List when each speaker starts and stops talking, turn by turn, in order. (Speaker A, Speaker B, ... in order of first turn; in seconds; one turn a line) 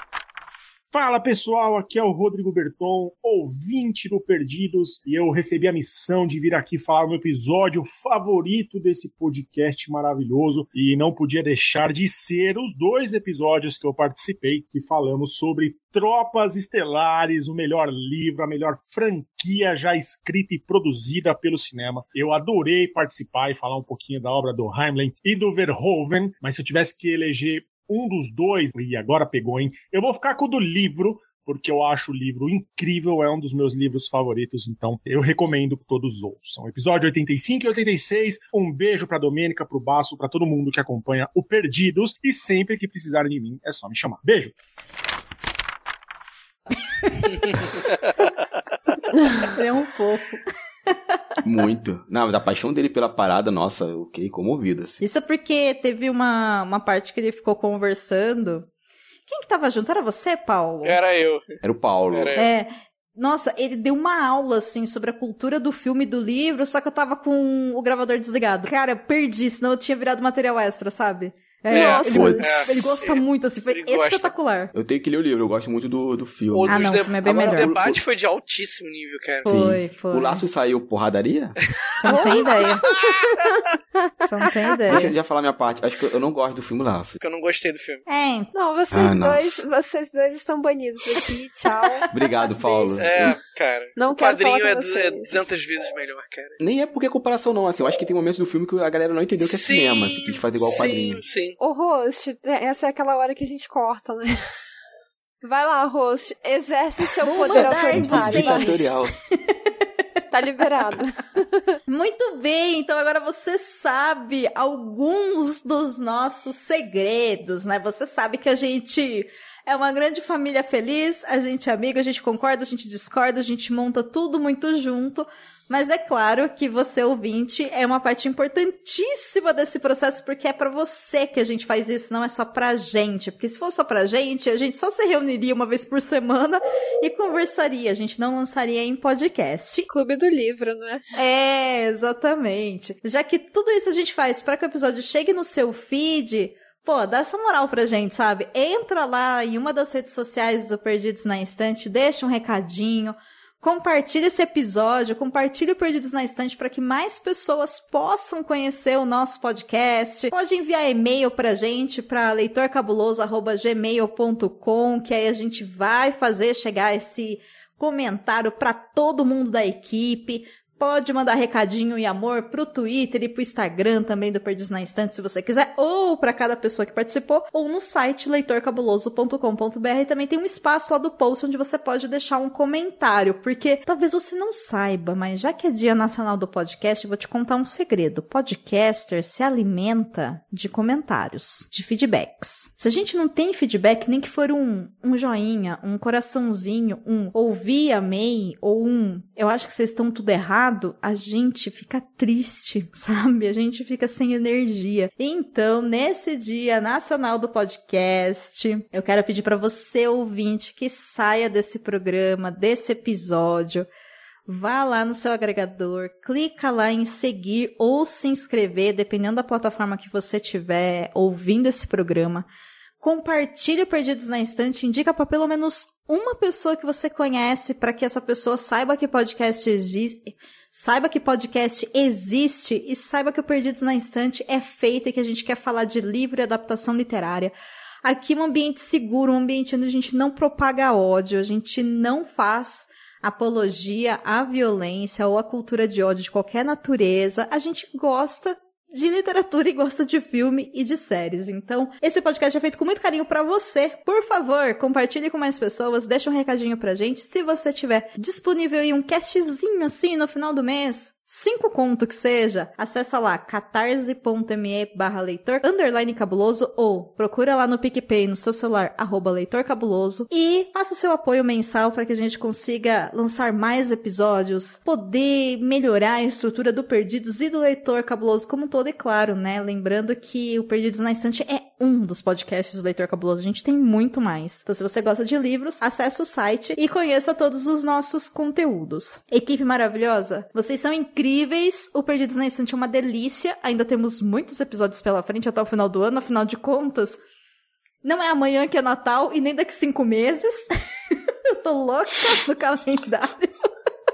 Speaker A: 0.9-44.5
Speaker B: 49.4-50.9
Speaker C: 51.4-55.0
Speaker B: 55.0-58.7
Speaker B: 59.3-61.0
Speaker D: 60.8-61.4
Speaker C: 61.6-62.5
Speaker D: 62.1-62.5
Speaker B: 62.4-74.7
Speaker E: 71.7-72.8
Speaker D: 71.7-74.3
Speaker C: 71.8-72.7
Speaker C: 74.7-78.0
Speaker D: 76.5-79.5
Speaker B: 76.7-77.9
Speaker B: 79.5-80.4
Speaker C: 79.5-81.5
Speaker B: 82.0-82.8
Speaker E: 82.0-84.0
Speaker D: 82.2-83.1
Speaker B: 84.2-85.1
Speaker C: 84.9-87.2
Speaker D: 87.2-88.0
Speaker B: 88.1-88.5
Speaker E: 88.5-92.0
Speaker C: 88.9-89.6
Speaker C: 92.1-93.3
Speaker E: 92.6-93.2
Speaker D: 93.0-96.6
Speaker E: 94.0-95.4
Speaker C: 96.6-101.2
Speaker D: 99.4-101.6
Speaker E: 101.6-104.3
Speaker E: 105.4-108.9
Speaker B: 107.2-109.0
Speaker C: 107.4-109.1
Speaker E: 110.3-111.8
Speaker B: 111.9-139.9
Speaker E: 139.9-141.0
Speaker B: 141.2-213.9
Speaker B: 214.4-222.4
Speaker B: 223.0-297.2
Speaker B: 298.0-303.5